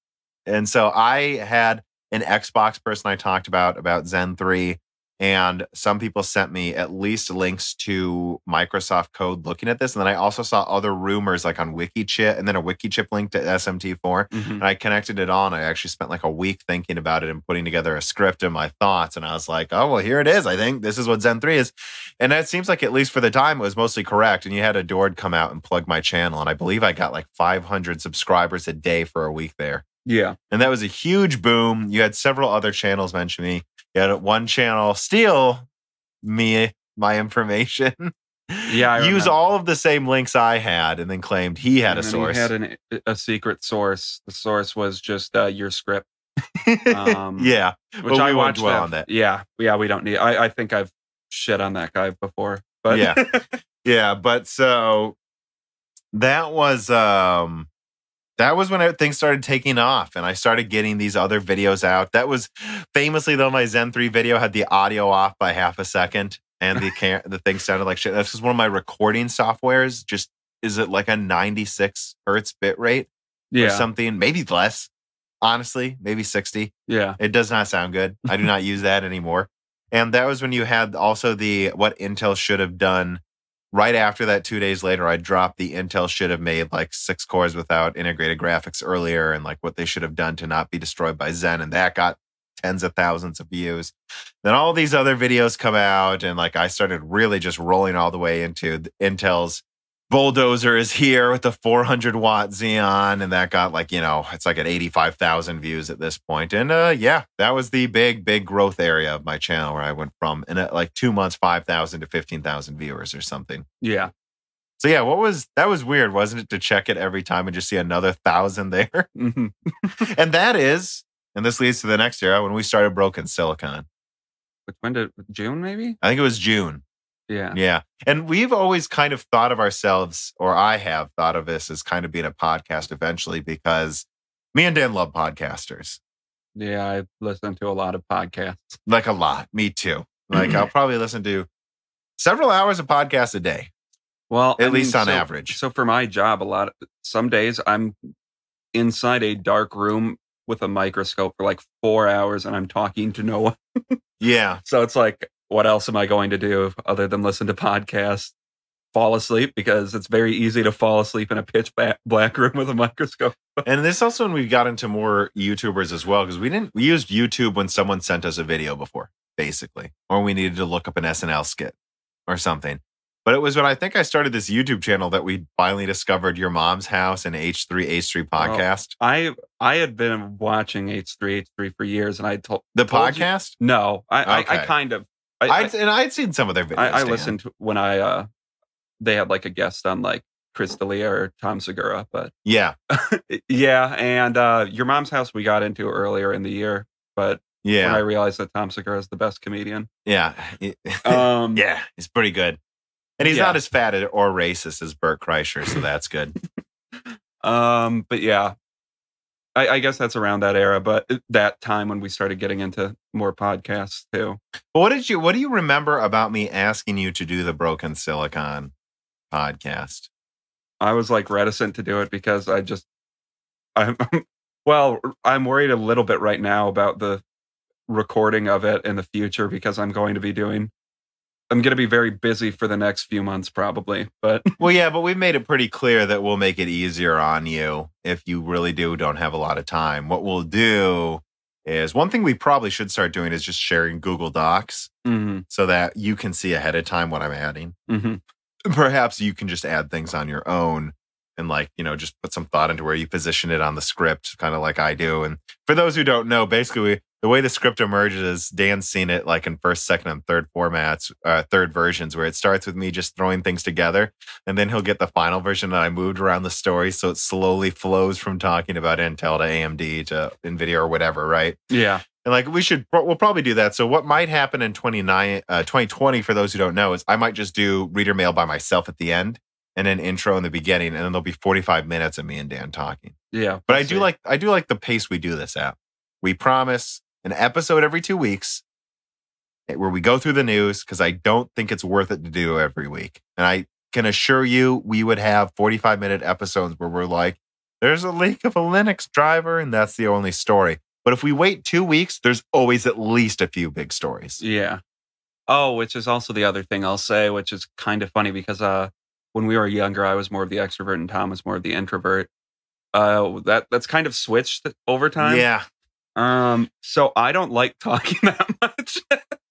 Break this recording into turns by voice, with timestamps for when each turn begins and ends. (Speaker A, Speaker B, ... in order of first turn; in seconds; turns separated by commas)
Speaker A: 0.5-29.8, Speaker B: 14.3-14.6, Speaker B: 30.0-30.4, Speaker A: 30.5-35.6, Speaker A: 36.2-42.5, Speaker B: 38.7-39.4, Speaker B: 41.9-46.0, Speaker A: 46.6-49.0, Speaker B: 46.9-47.5, Speaker B: 48.0-53.5, Speaker A: 52.9-53.2, Speaker A: 53.8-55.1, Speaker A: 56.1-57.7, Speaker A: 58.4-74.9, Speaker B: 73.5-73.9, Speaker A: 75.4-83.2, Speaker B: 76.9-77.2, Speaker A: 83.7-113.7, Speaker B: 113.8-114.1, Speaker A: 114.8-119.1, Speaker B: 119.2-120.0, Speaker A: 120.0-123.8, Speaker B: 124.7-126.0, Speaker A: 126.0-126.8, Speaker B: 127.3-127.6, Speaker A: 127.5-136.0, Speaker B: 136.6-138.8, Speaker A: 138.8-141.5, Speaker B: 140.3-140.6, Speaker A: 142.2-143.7, Speaker B: 144.3-148.1, Speaker A: 144.6-145.6, Speaker B: 148.7-154.0, Speaker A: 154.2-154.6, Speaker B: 154.6-158.3, Speaker B: 158.9-163.6, Speaker A: 163.6-171.7, Speaker A: 172.3-178.9, Speaker B: 178.4-185.7, Speaker A: 182.7-183.6, Speaker A: 184.2-184.7, Speaker A: 185.5-187.3, Speaker B: 186.7-188.3, Speaker B: 189.0-192.3, Speaker A: 192.4-192.7, Speaker B: 192.9-199.9, Speaker A: 197.6-198.0, Speaker A: 200.0-202.6, Speaker B: 201.0-201.6, Speaker A: 203.2-206.3, Speaker B: 203.2-203.6, Speaker B: 206.9-208.5, Speaker B: 209.5-214.4, Speaker A: 214.7-218.7, Speaker A: 219.3-220.1, Speaker B: 220.8-222.8, Speaker B: 223.8-227.2, Speaker B: 227.9-230.7, Speaker B: 231.5-234.6, Speaker A: 234.6-244.9, Speaker B: 245.0-245.4, Speaker A: 245.5-247.8, Speaker B: 247.9-248.2, Speaker A: 248.7-271.6, Speaker B: 271.7-272.0, Speaker A: 272.2-283.1, Speaker B: 283.3-284.1, Speaker A: 283.7-288.6, Speaker A: 289.7-304.4, Speaker B: 304.4-304.8, Speaker B: 305.5-312.3, Speaker B: 312.9-315.4, Speaker A: 315.2-315.6, Speaker B: 316.1-319.2